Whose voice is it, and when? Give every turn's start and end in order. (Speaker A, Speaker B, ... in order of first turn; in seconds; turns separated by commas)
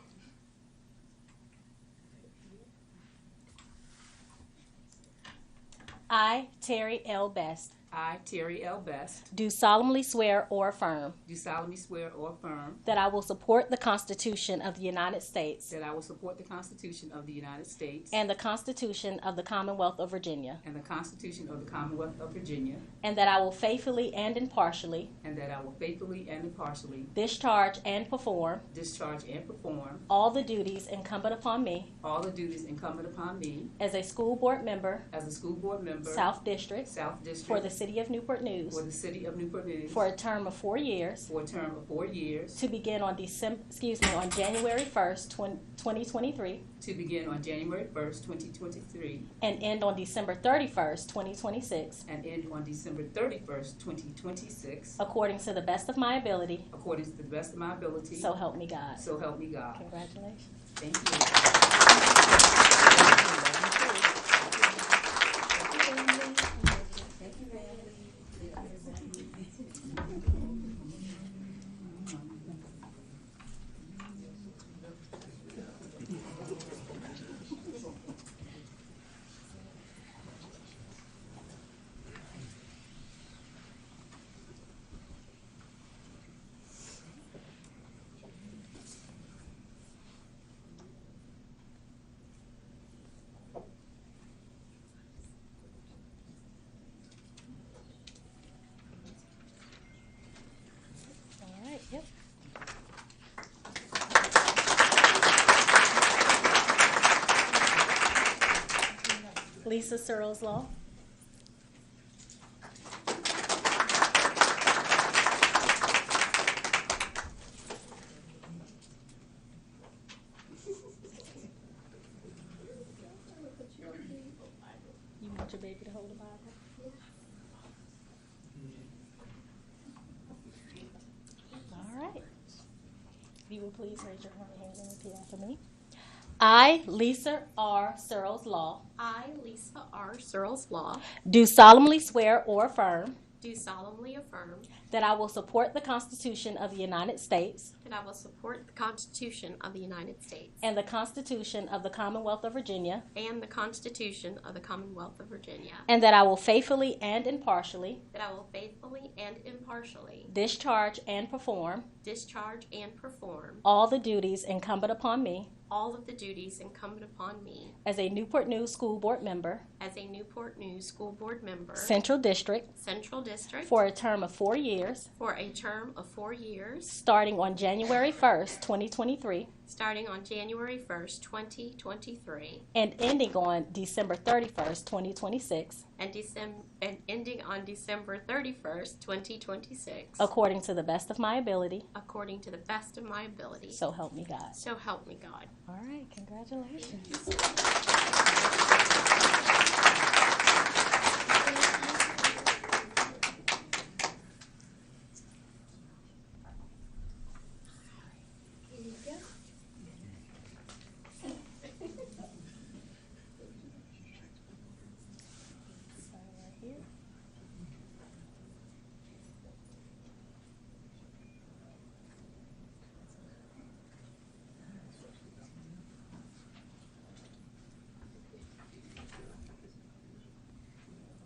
Speaker A: 6.1-7.8, Speaker B: 7.9-9.3, Speaker A: 9.3-11.2, Speaker B: 11.2-12.8, Speaker A: 12.8-15.7, Speaker B: 15.7-18.2, Speaker A: 18.1-20.6, Speaker B: 20.6-22.8, Speaker A: 23.0-25.1, Speaker B: 25.2-27.1, Speaker A: 27.1-28.6, Speaker B: 28.7-30.1, Speaker A: 30.1-31.9, Speaker B: 32.0-33.7, Speaker A: 33.8-35.0, Speaker B: 35.1-36.3, Speaker A: 36.0-36.9, Speaker B: 36.8-37.7, Speaker A: 37.4-38.8, Speaker B: 38.7-40.1, Speaker A: 39.9-41.3, Speaker B: 41.3-42.6, Speaker A: 42.5-46.6, Speaker B: 46.8-49.3, Speaker A: 49.4-52.0, Speaker B: 52.1-55.0, Speaker A: 55.0-56.7, Speaker B: 56.7-58.3, Speaker A: 58.1-59.0, Speaker B: 59.0-59.8, Speaker A: 59.7-60.5, Speaker B: 60.8-61.4, Speaker B: 62.8-64.1, Speaker B: 65.6-66.0, Speaker B: 67.0-68.1, Speaker B: 72.0-72.4, Speaker A: 101.4-102.1, Speaker A: 109.6-110.7, Speaker C: 123.4-124.5, Speaker A: 125.2-126.6, Speaker A: 131.7-132.2, Speaker A: 133.5-135.6, Speaker A: 136.4-138.8, Speaker C: 139.0-141.1, Speaker A: 141.2-143.2, Speaker C: 143.4-144.7, Speaker A: 144.9-147.7, Speaker C: 147.8-150.6, Speaker A: 150.6-153.1, Speaker C: 153.1-155.9, Speaker A: 155.9-158.0, Speaker C: 158.1-160.3, Speaker A: 160.3-161.9, Speaker C: 162.0-163.6, Speaker A: 163.6-165.5, Speaker C: 165.7-167.8, Speaker A: 167.8-169.6, Speaker C: 169.8-172.0, Speaker A: 171.8-172.7, Speaker C: 172.7-173.8, Speaker A: 173.6-175.1, Speaker C: 175.2-176.9, Speaker A: 176.9-179.5, Speaker C: 179.7-182.6, Speaker A: 182.7-185.8, Speaker C: 186.0-190.3, Speaker A: 190.2-191.9, Speaker C: 191.9-193.8, Speaker A: 193.7-194.6, Speaker C: 194.5-195.5, Speaker A: 195.7-197.2, Speaker A: 215.8-216.8